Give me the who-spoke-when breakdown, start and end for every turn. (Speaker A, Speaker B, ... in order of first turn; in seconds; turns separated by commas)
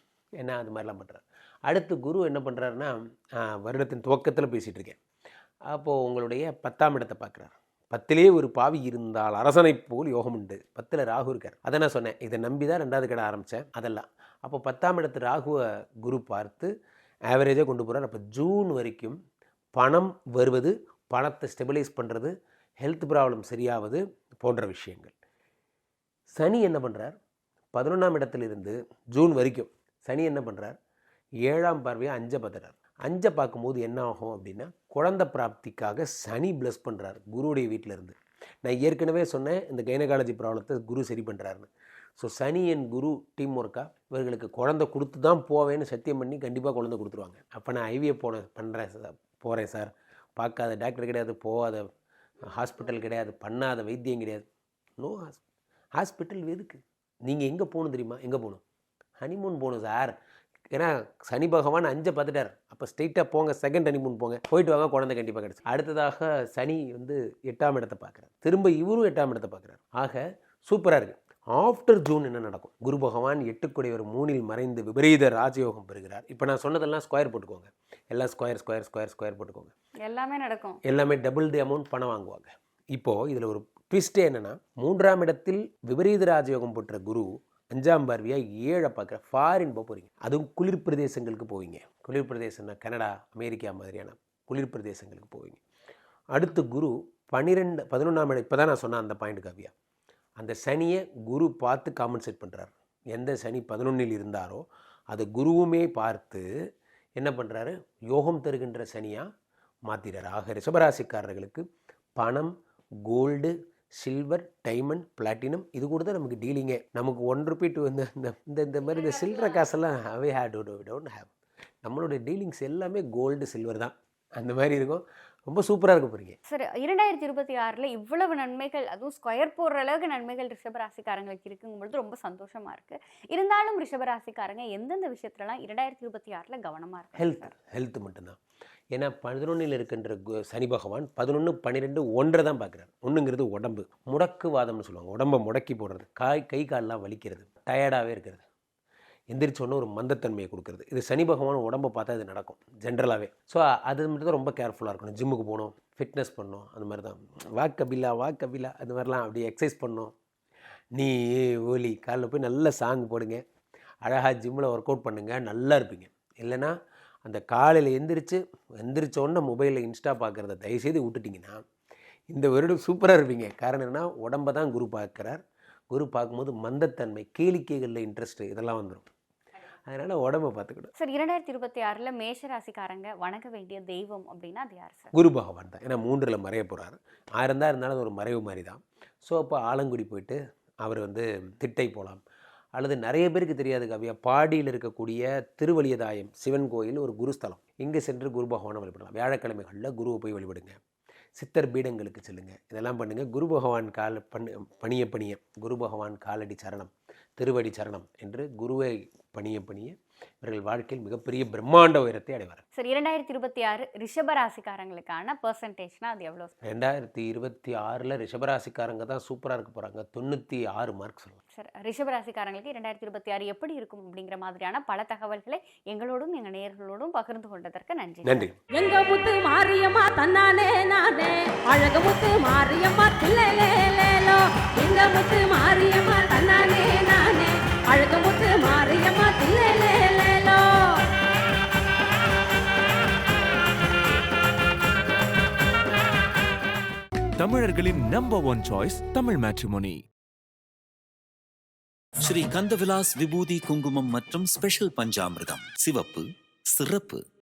Speaker A: 0.4-5.0, Speaker A: 5.7-16.7, Speaker A: 17.3-19.1, Speaker A: 19.8-25.1, Speaker A: 26.4-27.1, Speaker A: 27.7-30.8, Speaker A: 31.4-41.7, Speaker A: 42.2-51.9, Speaker A: 52.4-54.4, Speaker A: 55.0-55.4, Speaker A: 56.0-58.6, Speaker A: 59.2-60.1, Speaker A: 60.7-79.7, Speaker B: 80.0-80.8, Speaker A: 80.8-95.6, Speaker A: 96.3-99.7, Speaker A: 100.4-106.4, Speaker A: 107.2-109.3, Speaker A: 109.8-111.6, Speaker A: 112.2-112.5, Speaker A: 113.0-121.3, Speaker A: 121.8-126.4, Speaker B: 126.5-137.5, Speaker A: 137.2-138.4, Speaker A: 138.9-148.4, Speaker A: 149.3-160.1, Speaker A: 160.9-163.4, Speaker A: 164.0-166.7, Speaker A: 167.2-171.6, Speaker A: 172.3-179.1, Speaker A: 179.9-180.9, Speaker B: 181.0-185.1, Speaker A: 185.1-192.2, Speaker A: 192.7-200.8, Speaker A: 201.3-212.6, Speaker B: 212.7-216.5, Speaker A: 216.6-221.4, Speaker B: 221.5-228.5, Speaker A: 228.2-228.5, Speaker C: 228.7-240.6, Speaker D: 247.4-250.0, Speaker E: 252.2-257.2